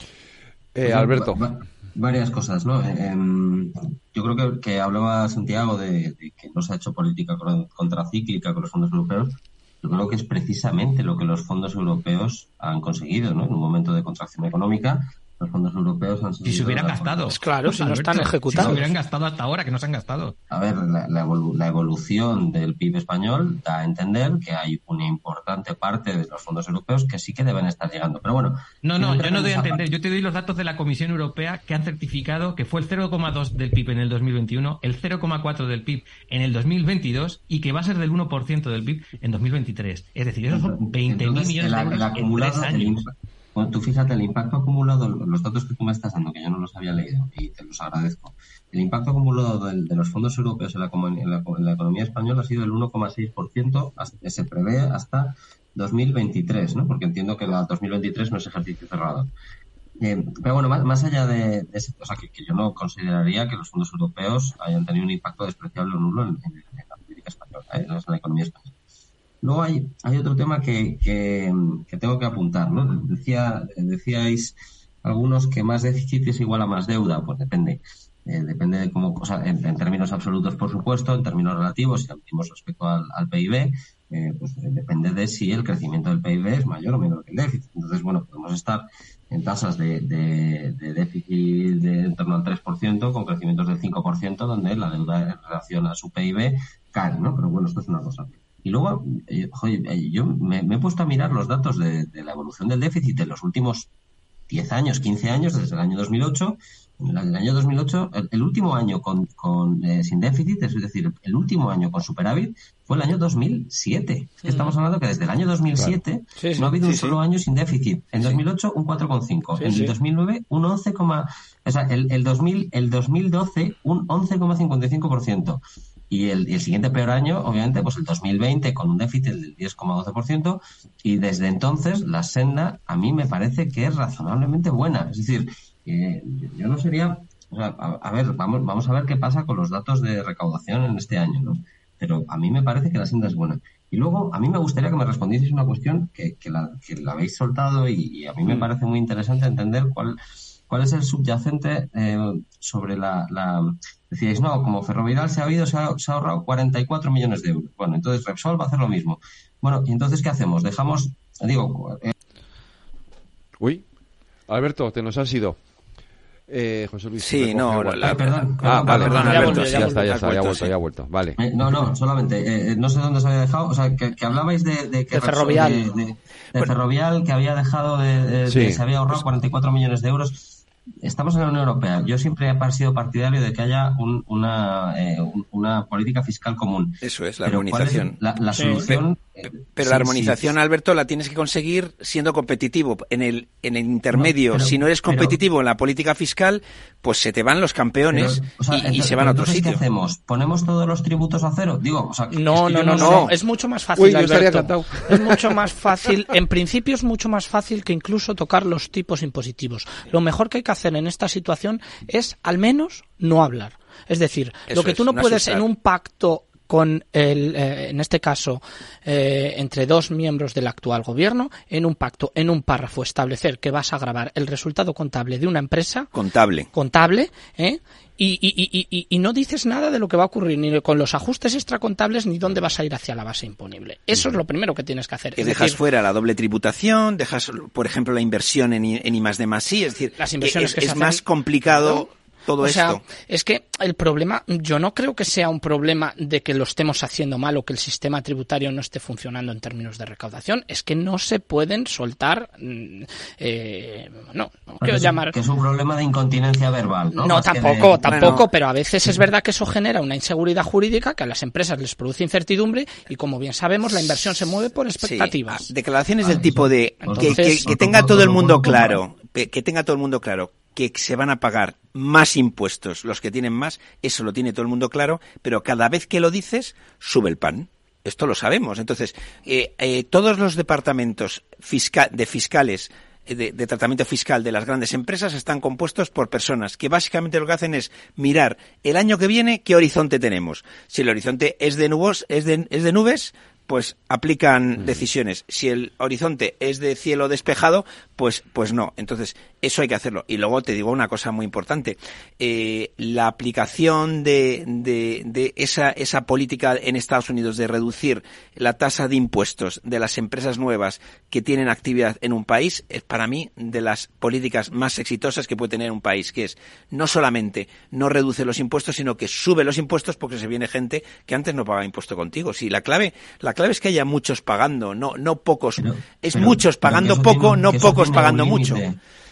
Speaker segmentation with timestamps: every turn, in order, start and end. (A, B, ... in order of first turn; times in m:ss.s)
0:00.7-0:01.5 A
0:00.8-0:17.4 B
0:16.4-0:20.4 C
0:17.3-0:18.9 D
0:18.5-0:18.8 B
0:20.5-0:29.8 B
0:28.8-0:43.0 C
0:40.5-0:59.3 B
1:00.0-1:08.7 B
1:09.4-1:43.9 B
1:44.5-2:30.2 B
1:54.4-1:54.8 D
1:56.4-1:56.7 D
1:56.8-1:57.2 E
1:59.6-2:00.0 D
2:30.7-2:42.1 B
2:43.6-2:43.8 A
2:44.5-2:45.6 A
2:46.5-2:51.9 A
2:47.2-2:50.7 E
2:48.0-2:49.7 B
2:49.0-2:50.1 D
2:51.4-3:10.6 B
2:55.1-2:55.8 D
2:58.5-2:58.8 A
3:07.0-3:08.1 E
3:08.5-3:08.9 D
3:09.8-3:19.8 E
3:14.1-3:15.4 B
3:18.1-3:23.3 B
3:22.3-3:46.1 D
3:22.9-3:23.3 E
3:22.9-3:23.3 A
3:24.0-3:25.4 A
3:34.7-3:35.6 E
3:46.1-3:46.7 E
3:46.7-3:55.8 D
3:55.4-4:03.0 E
4:00.2-4:02.1 D
4:02.6-4:15.4 D
4:14.8-4:18.3 B
4:17.1-4:25.7 D
4:18.0-4:18.5 E
4:25.0-5:28.8 E
4:26.2-4:29.0 B
4:27.1-4:27.6 D
5:25.8-5:29.0 B